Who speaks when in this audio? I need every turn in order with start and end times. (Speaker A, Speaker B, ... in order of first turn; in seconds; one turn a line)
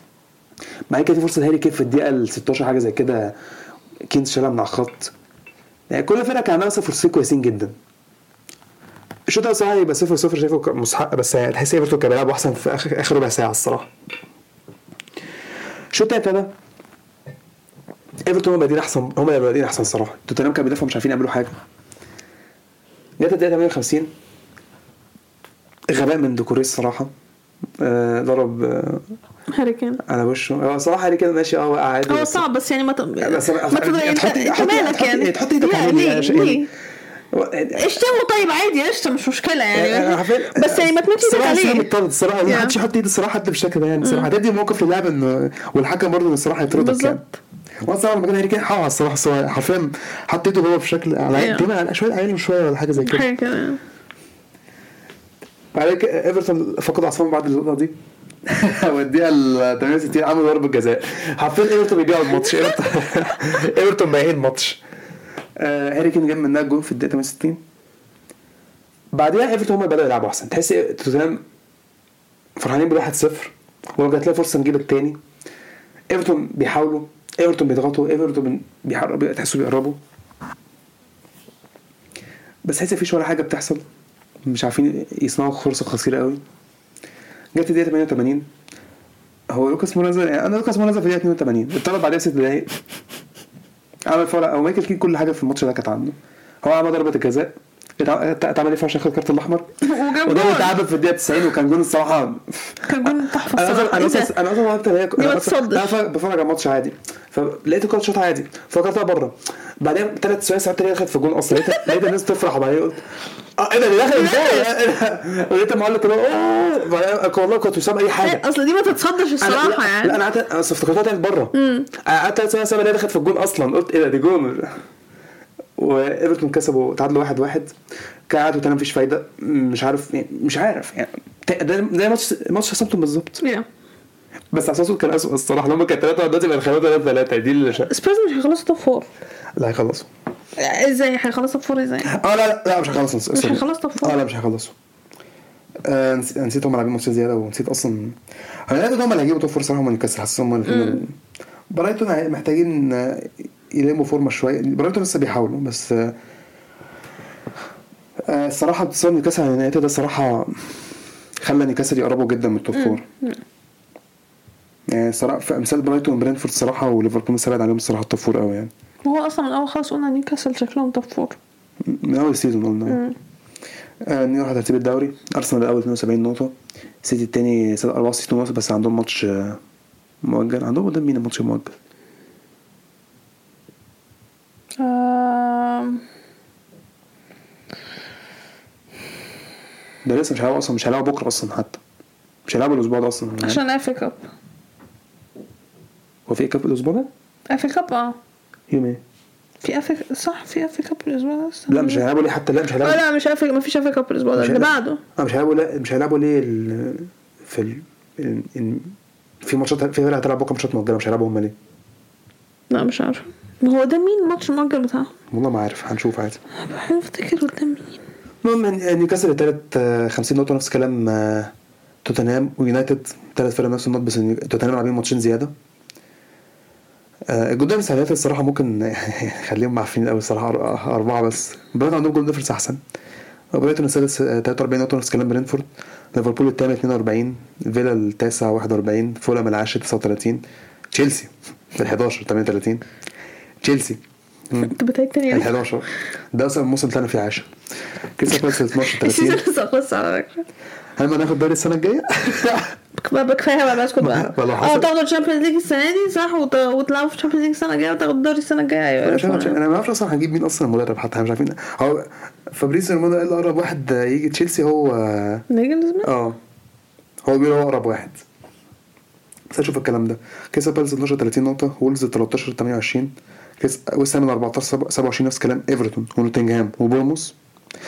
Speaker A: 0.9-3.4
Speaker A: 4.0-5.1
Speaker A: 5.9-7.7
Speaker A: 9.3-13.9
Speaker A: 15.9-16.5
Speaker A: 18.2-21.5
Speaker A: 23.2-24.1
Speaker A: 25.9-27.1
Speaker A: 27.8-29.1
Speaker B: 29.5-30.0
Speaker A: 30.0-32.4
Speaker B: 32.1-36.7
Speaker A: 33.2-36.7
Speaker A: 37.3-38.0
Speaker B: 37.7-41.9
Speaker A: 39.7-47.2
Speaker B: 42.5-42.8
Speaker B: 44.0-44.3
Speaker B: 46.7-47.3
Speaker A: 47.8-53.3
Speaker B: 51.3-51.7
Speaker B: 53.0-53.8
Speaker A: 55.7-57.9
Speaker A: 58.5-64.8
Speaker A: 65.6-67.6
Speaker A: 69.1-71.4
Speaker A: 72.6-75.2
Speaker A: 76.1-80.0
Speaker A: 82.6-83.8
Speaker A: 84.4-86.4
Speaker A: 87.5-88.5
Speaker A: 89.5-92.7
Speaker A: 94.0-113.0
Speaker B: 99.8-100.8
Speaker B: 102.8-104.3
Speaker B: 105.2-106.0
Speaker A: 113.6-118.4
Speaker B: 114.1-114.7
Speaker B: 118.2-120.2
Speaker A: 119.4-124.7
Speaker B: 121.5-121.9
Speaker A: 125.8-127.7
Speaker A: 128.3-133.4
Speaker B: 133.4-133.7
Speaker A: 134.5-137.9
Speaker B: 137.8-139.1
Speaker A: 139.6-140.1
Speaker B: 140.6-142.1
Speaker A: 142.1-144.7
Speaker B: 143.3-144.2
Speaker A: 145.8-148.2
Speaker A: 148.7-151.1
Speaker B: 150.7-151.0
Speaker A: 151.7-156.1
Speaker A: 158.2-160.6
Speaker A: 161.4-163.0
Speaker B: 162.7-163.3
Speaker A: 164.9-168.7
Speaker B: 169.0-171.4
Speaker A: 171.8-173.0
Speaker B: 172.9-173.2
Speaker A: 174.0-179.6
Speaker A: 180.2-181.7
Speaker B: 184.8-186.0
Speaker A: 190.0-191.8
Speaker A: 192.4-193.6
Speaker B: 193.4-194.2
Speaker A: 196.3-197.1
Speaker B: 197.5-198.2
Speaker A: 198.7-199.0
Speaker B: 199.6-202.0
Speaker A: 201.7-203.0
Speaker B: 202.8-205.0
Speaker A: 204.3-211.5
Speaker B: 212.7-215.1
Speaker A: 215.3-216.4
Speaker B: 216.6-218.0
Speaker A: 218.4-221.5
Speaker A: 222.0-225.5
Speaker A: 227.3-232.8
Speaker A: 233.5-242.8
Speaker A: 243.6-244.7
Speaker B: 244.6-245.5
Speaker A: 245.3-247.5
Speaker A: 248.2-249.4
Speaker B: 248.8-250.4
Speaker A: 251.0-252.7
Speaker B: 253.0-259.6
Speaker A: 254.0-254.9
Speaker A: 259.0-265.4
Speaker B: 265.5-266.1
Speaker A: 266.0-266.4
Speaker A: 267.2-268.2
Speaker A: 269.5-277.3